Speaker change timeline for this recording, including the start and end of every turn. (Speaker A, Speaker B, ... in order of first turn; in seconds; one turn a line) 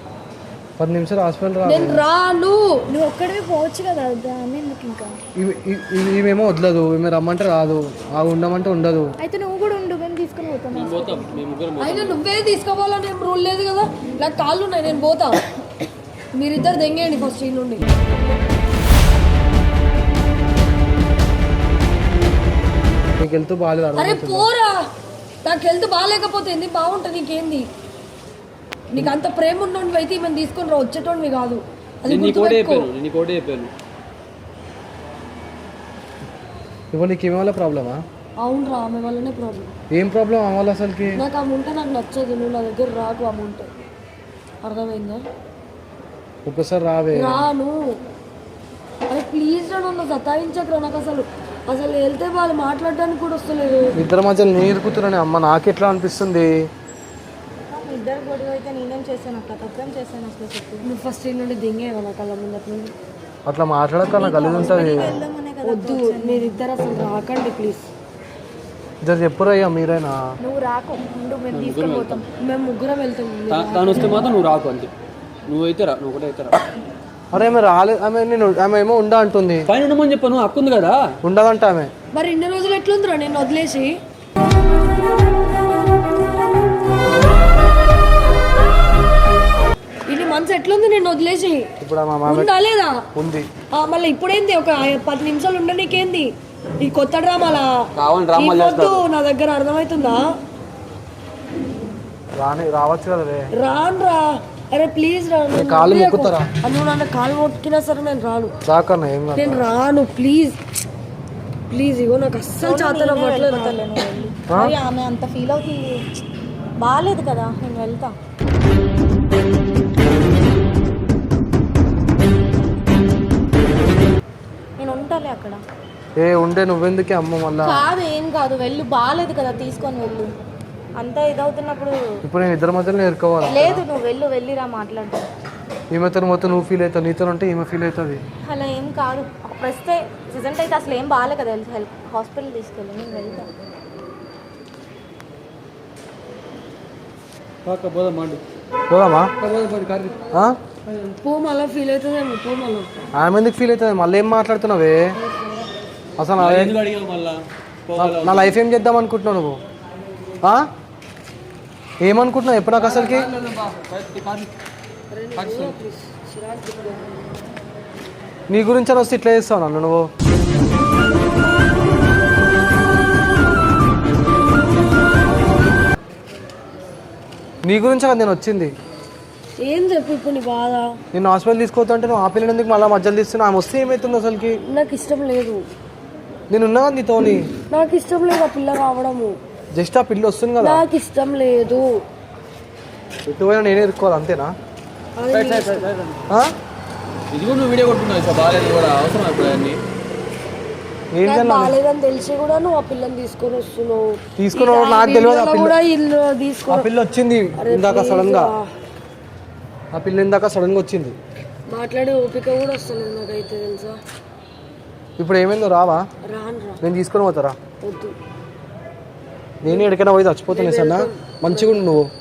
Speaker A: 0.8-2.0
Speaker B: 1.6-2.8
Speaker C: 2.9-5.2
Speaker A: 5.3-9.1
Speaker C: 9.2-11.3
Speaker D: 10.7-12.2
Speaker B: 11.8-15.4
Speaker B: 16.4-17.9
Speaker A: 23.2-24.5
Speaker B: 24.0-24.8
Speaker B: 25.4-27.7
Speaker B: 28.9-32.9
Speaker D: 32.0-33.7
Speaker A: 36.9-38.0
Speaker B: 38.4-39.7
Speaker A: 39.9-41.2
Speaker B: 41.2-43.7
Speaker B: 44.6-45.2
Speaker A: 46.5-47.4
Speaker B: 47.1-48.0
Speaker B: 49.1-53.9
Speaker A: 54.0-56.5
Speaker C: 57.7-60.9
Speaker B: 60.8-62.9
Speaker A: 63.5-65.1
Speaker C: 64.2-66.6
Speaker B: 65.6-67.9
Speaker A: 69.0-70.2
Speaker C: 70.4-72.3
Speaker D: 71.5-72.2
Speaker B: 72.4-74.3
Speaker D: 73.5-74.9
Speaker D: 75.5-76.6
Speaker A: 77.3-79.7
Speaker D: 79.7-81.0
Speaker A: 81.2-81.9
Speaker B: 82.1-83.9
Speaker B: 90.1-91.7
Speaker A: 91.8-92.5
Speaker B: 92.3-93.0
Speaker A: 93.1-93.5
Speaker B: 93.7-97.7
Speaker D: 98.0-99.0
Speaker B: 98.3-100.2
Speaker A: 102.4-103.5
Speaker B: 103.5-108.5
Speaker A: 105.5-106.5
Speaker A: 108.7-109.6
Speaker B: 109.3-110.6
Speaker B: 111.7-113.8
Speaker C: 112.6-116.0
Speaker A: 114.5-114.8
Speaker C: 116.8-118.2
Speaker C: 124.8-125.6
Speaker A: 126.2-127.8
Speaker C: 127.6-130.3
Speaker C: 130.9-132.0
Speaker A: 132.2-133.8
Speaker C: 133.5-135.3
Speaker A: 135.9-138.2
Speaker C: 138.4-143.5
Speaker D: 147.6-148.4
Speaker A: 148.9-149.3
Speaker D: 149.4-150.2
Speaker B: 150.9-152.9
Speaker A: 153.2-155.1
Speaker B: 155.2-155.7
Speaker A: 156.2-156.7
Speaker D: 156.4-158.6
Speaker A: 158.0-159.6
Speaker A: 162.0-163.3
Speaker D: 162.8-164.5
Speaker B: 165.1-167.2
Speaker D: 165.3-165.8
Speaker A: 168.5-170.1
Speaker A: 177.6-178.7
Speaker B: 179.6-180.9
Speaker A: 181.1-184.6
Speaker B: 184.7-185.6
Speaker A: 186.5-187.5
Speaker B: 187.7-189.3
Speaker A: 189.7-190.8
Speaker B: 190.6-191.9
Speaker A: 193.3-194.5
Speaker B: 195.2-195.9
Speaker D: 195.3-196.2
Speaker D: 197.3-199.8
Speaker A: 201.1-201.7
Speaker B: 201.2-206.9
Speaker A: 204.4-205.7
Speaker A: 206.7-208.5
Speaker B: 207.6-208.6
Speaker A: 209.9-211.2
Speaker B: 211.7-214.0
Speaker A: 215.2-216.0
Speaker B: 216.2-216.8
Speaker A: 216.8-217.6
Speaker B: 217.8-218.1
Speaker A: 219.6-222.1
Speaker B: 219.7-219.9
Speaker B: 220.5-221.8